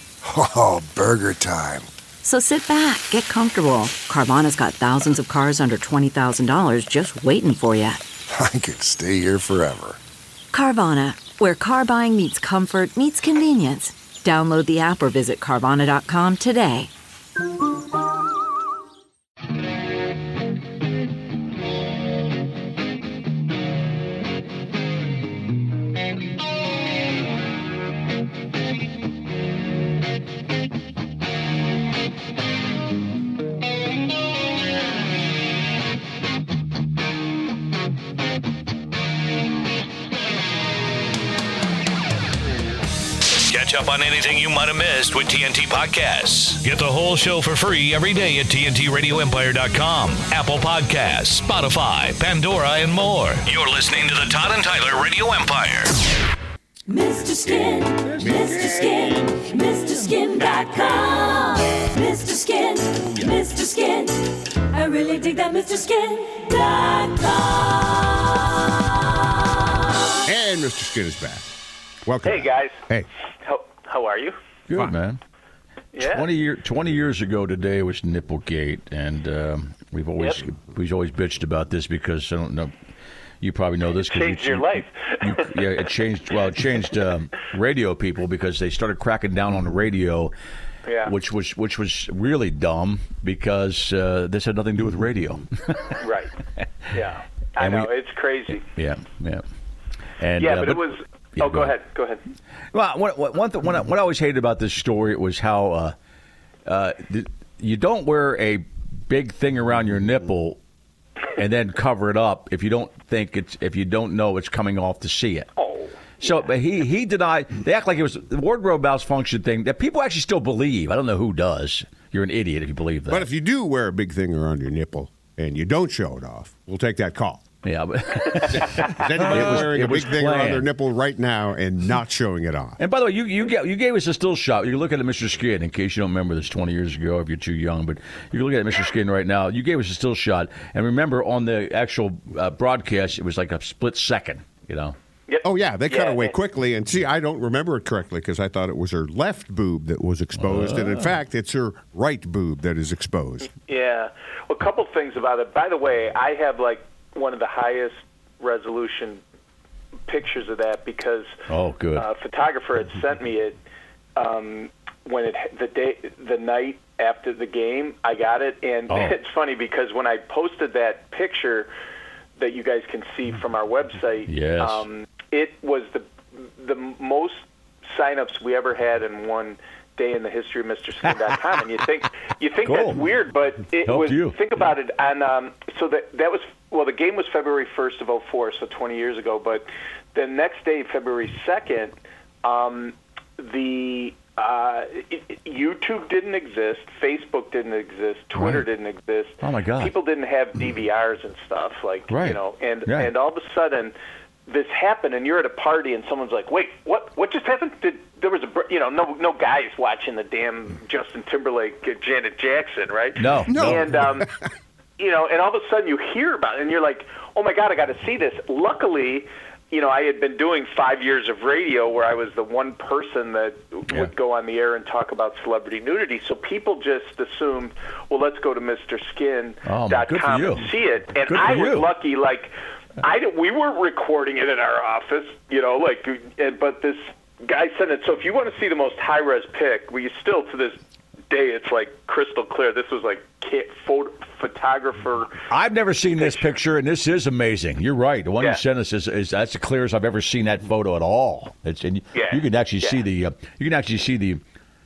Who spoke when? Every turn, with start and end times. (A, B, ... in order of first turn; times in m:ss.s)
0:00.2-0:01.9 A
0:02.2-0:08.0 B
0:08.3-0:10.0 A
0:10.5-0:16.9 B
0:43.4-0:55.9 C
0:56.9-1:04.1 D
0:57.5-0:59.4 E
1:04.8-1:07.6 D
1:10.2-1:11.5 F
1:12.0-1:13.1 F
1:12.2-1:12.8 G
1:13.4-1:14.4 G
1:14.7-1:15.2 E
1:15.9-1:16.3 G
1:16.0-1:22.7 E
1:23.4-1:30.3 E
1:23.9-1:25.5 G
1:30.8-1:31.1 G
1:31.0-1:36.0 E
1:36.0-1:36.3 G
1:36.9-1:38.6 G
1:37.6-1:37.9 E
1:38.5-1:39.4 E
1:40.2-1:41.8 E
1:40.4-1:42.2 G
1:42.7-1:45.9 E
1:46.7-1:50.6 E
1:51.4-1:55.5 E
1:55.6-1:56.5 G
1:56.2-2:03.3 E
2:03.1-2:07.4 F
2:07.6-2:10.7 E
2:08.5-2:12.8 F
2:12.8-2:25.0 E
2:25.3-2:26.3 G
2:25.4-2:33.5 F
2:30.4-2:31.2 E
2:33.7-2:39.2 G
2:40.1-2:41.4 G
2:41.5-2:42.1 E
2:42.0-2:43.6 G
2:44.2-2:51.7 G
2:48.9-2:49.2 E
2:52.4-3:24.0 G
2:54.3-2:54.8 E
3:02.6-3:03.0 E
3:03.8-3:04.4 E
3:18.3-3:18.7 E
3:19.4-3:19.9 E
3:22.1-3:23.1 E
3:24.5-3:34.3 G
3:33.2-3:33.9 E
3:33.5-3:34.3 F
3:35.0-4:00.8 G
3:49.6-3:51.9 E
4:01.3-4:05.4 G
4:05.5-4:14.4 E
4:06.1-4:06.5 G
4:12.1-4:13.0 G